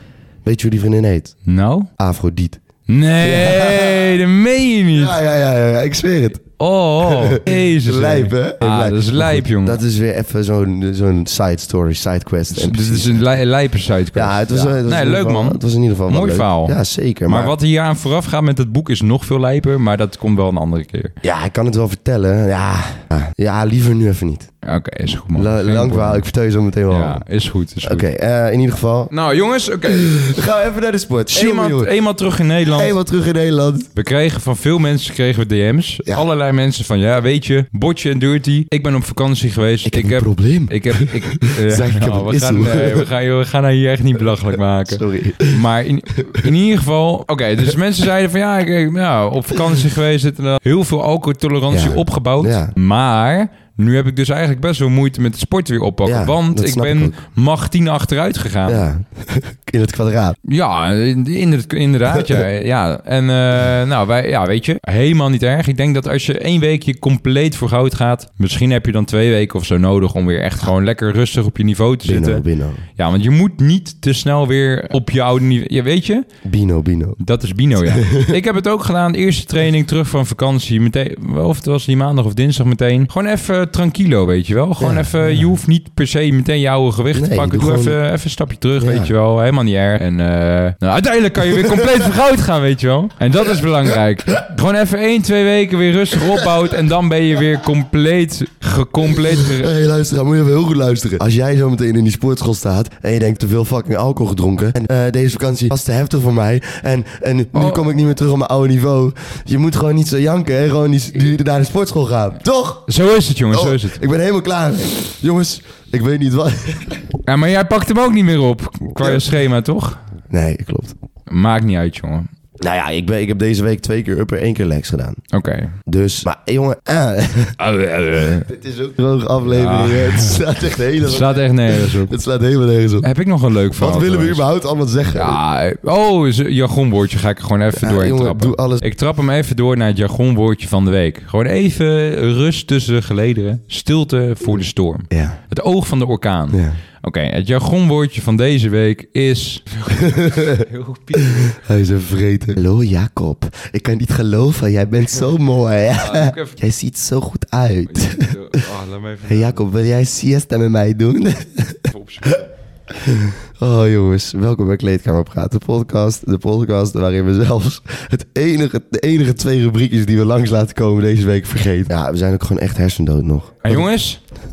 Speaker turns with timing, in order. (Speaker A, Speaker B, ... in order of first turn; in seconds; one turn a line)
Speaker A: 0.4-1.4
Speaker B: 1.4-1.9
Speaker A: 2.0-2.6
Speaker B: 2.9-5.2
Speaker A: 3.2-4.2
Speaker A: 4.9-6.5
Speaker B: 6.6-9.8
Speaker A: 7.0-13.2
Speaker B: 12.5-21.1
Speaker A: 14.1-17.5
Speaker A: 21.2-24.5
Speaker B: 24.6-26.2
Speaker A: 25.3-27.2
Speaker B: 26.9-28.0
Speaker A: 27.8-29.1
Speaker B: 29.1-30.2
Speaker A: 29.9-31.9
Speaker B: 31.3-33.0
Speaker A: 32.7-33.9
Speaker B: 33.9-58.9
Speaker A: 39.9-43.1
Speaker A: 44.9-45.6
Speaker A: 51.7-52.7
Speaker A: 56.0-57.1
Speaker A: 58.6-60.4
Speaker B: 60.4-72.4
Speaker A: 72.0-72.8
Speaker B: 73.0-76.3
Speaker A: 76.4-77.2
Speaker B: 77.2-99.7
Speaker A: 77.8-78.3
Speaker A: 84.8-85.4
Speaker A: 87.1-88.0
Speaker A: 88.8-89.1
Speaker A: 99.3-112.9
Speaker B: 107.5-107.8
Speaker B: 112.9-114.0
Speaker A: 113.5-117.1
Speaker B: 117.2-120.0
Speaker A: 119.0-119.2
Speaker A: 120.3-120.9
Speaker B: 121.3-122.3
Speaker A: 122.6-125.2
Speaker B: 125.3-125.7
Speaker A: 125.8-127.6
Speaker B: 127.6-128.5
Speaker A: 128.4-133.1
Speaker B: 129.4-132.1
Speaker B: 133.0-134.4
Speaker A: 133.7-135.4
Speaker B: 135.1-151.5
Speaker A: 137.7-138.8
Speaker A: 145.1-145.4
Speaker A: 146.5-146.8
Speaker A: 149.9-150.6
Speaker A: 151.2-158.6
Speaker B: 155.9-156.6
Speaker B: 157.9-159.6
Speaker A: 159.2-162.4
Speaker B: 161.9-162.4
Speaker A: 162.9-173.8
Speaker B: 173.6-174.2